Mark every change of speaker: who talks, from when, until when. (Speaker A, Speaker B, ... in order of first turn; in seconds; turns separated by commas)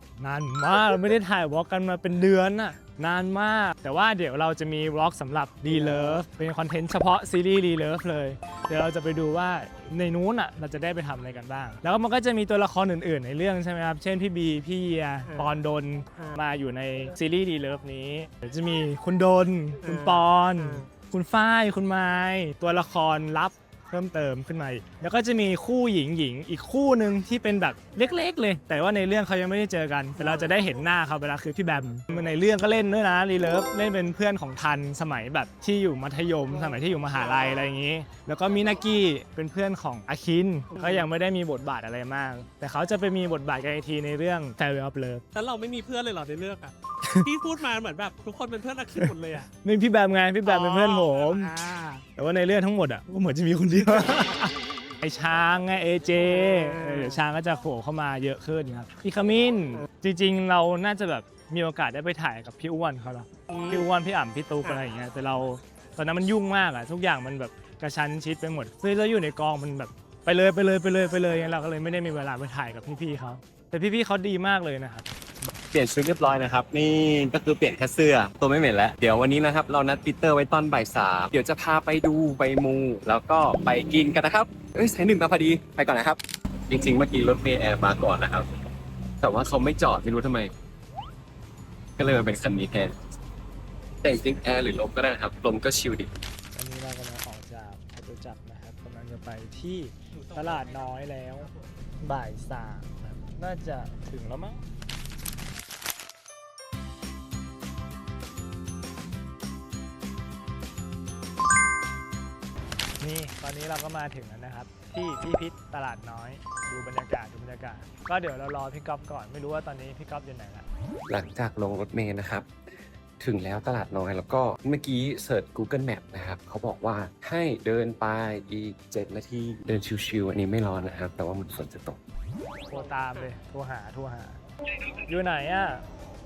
Speaker A: 0.2-45.2, Speaker B: 5.7-6.2, Speaker B: 15.3-15.6, Speaker B: 19.8-20.9, Speaker B: 30.2-30.5, Speaker B: 40.8-41.0, Speaker B: 45.3-49.5, Speaker A: 49.6-51.5, Speaker B: 50.4-52.0, Speaker A: 52.1-75.1, Speaker B: 56.2-57.2, Speaker B: 63.5-63.9, Speaker C: 75.7-88.5, Speaker C: 89.2-90.5, Speaker C: 92.0-92.9, Speaker C: 94.0-96.1, Speaker A: 96.5-101.5, Speaker B: 100.2-100.9, Speaker A: 102.0-104.6, Speaker A: 113.0-120.7, Speaker C: 121.1-122.5, Speaker C: 123.2-132.0, Speaker A: 132.7-134.4, Speaker A: 135.0-135.8